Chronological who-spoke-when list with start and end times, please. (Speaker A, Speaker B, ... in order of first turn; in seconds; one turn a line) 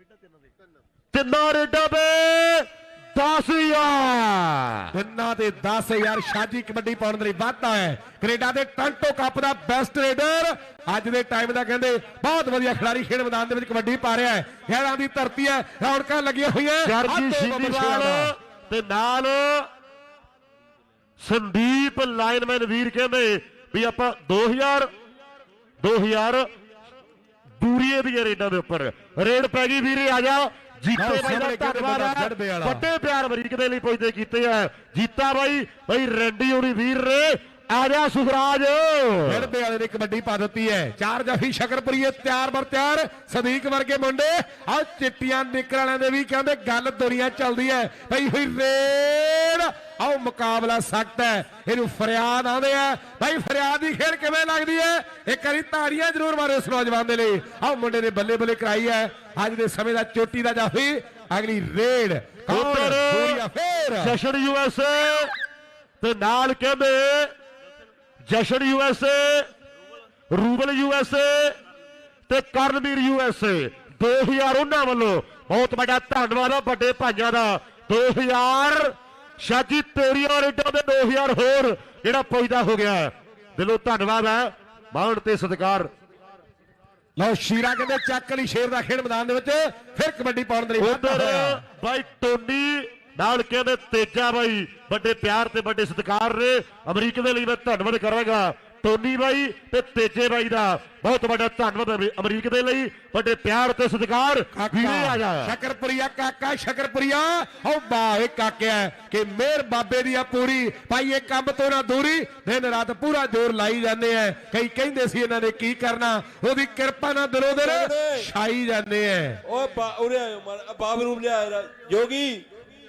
Speaker A: 1.1-4.9
Speaker B: 4.9-18.3
Speaker A: 16.9-19.7
Speaker A: 21.2-24.9
Speaker A: 25.8-26.5
Speaker A: 27.6-39.5
Speaker B: 31.0-32.9
Speaker B: 39.3-64.2
Speaker A: 62.5-63.4
Speaker A: 64.0-65.3
Speaker A: 66.0-67.3
Speaker A: 68.3-69.5
Speaker A: 70.3-71.6
Speaker A: 72.3-85.9
Speaker B: 87.2-91.6
Speaker A: 90.8-105.5
Speaker B: 104.5-119.4
Speaker C: 117.6-118.3
Speaker C: 119.5-122.5